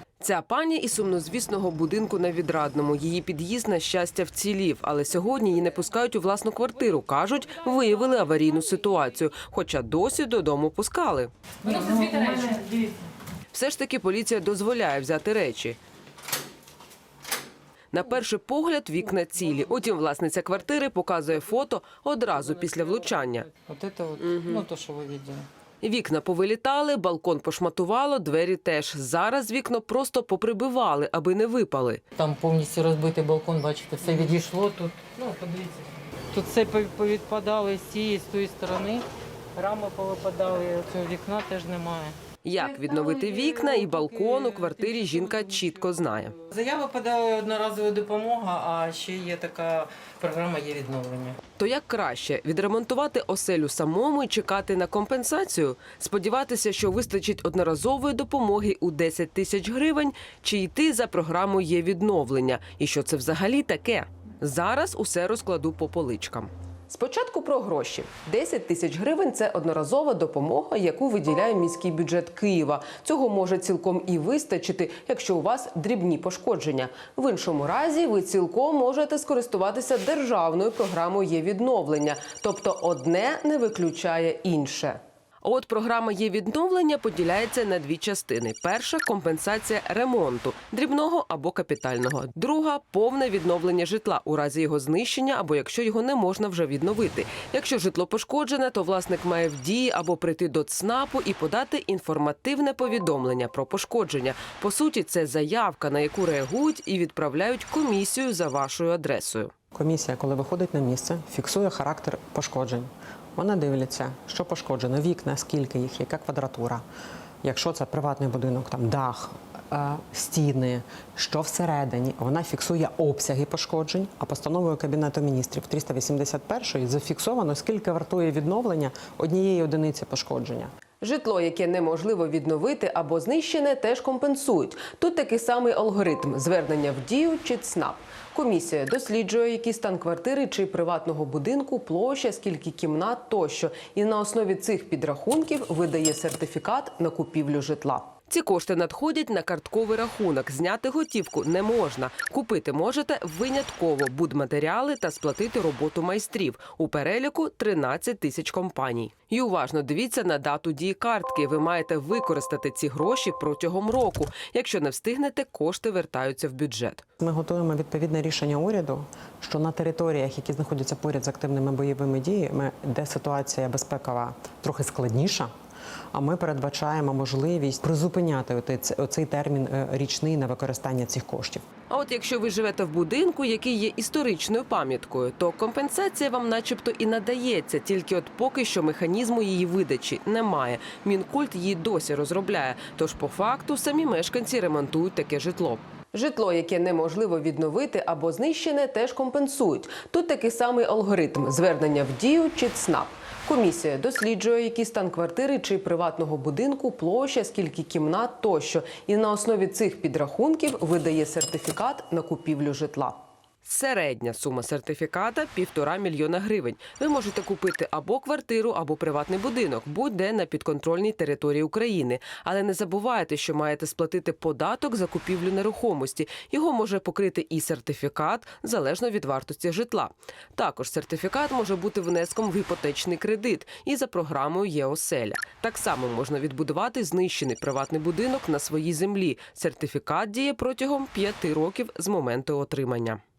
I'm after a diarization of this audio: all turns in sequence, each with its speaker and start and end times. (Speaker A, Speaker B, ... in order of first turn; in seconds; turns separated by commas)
Speaker A: 0.2-12.3, Speaker B: 11.7-12.7, Speaker A: 13.5-15.8, Speaker A: 17.9-23.5, Speaker B: 23.6-25.5, Speaker A: 24.2-24.7, Speaker A: 25.8-32.0, Speaker B: 32.2-45.8, Speaker A: 42.4-46.4, Speaker B: 46.4-51.4, Speaker A: 51.6-109.5, Speaker C: 109.7-116.8, Speaker C: 117.4-130.7, Speaker A: 131.0-167.1, Speaker C: 167.2-175.5, Speaker C: 176.1-181.7, Speaker A: 181.9-243.2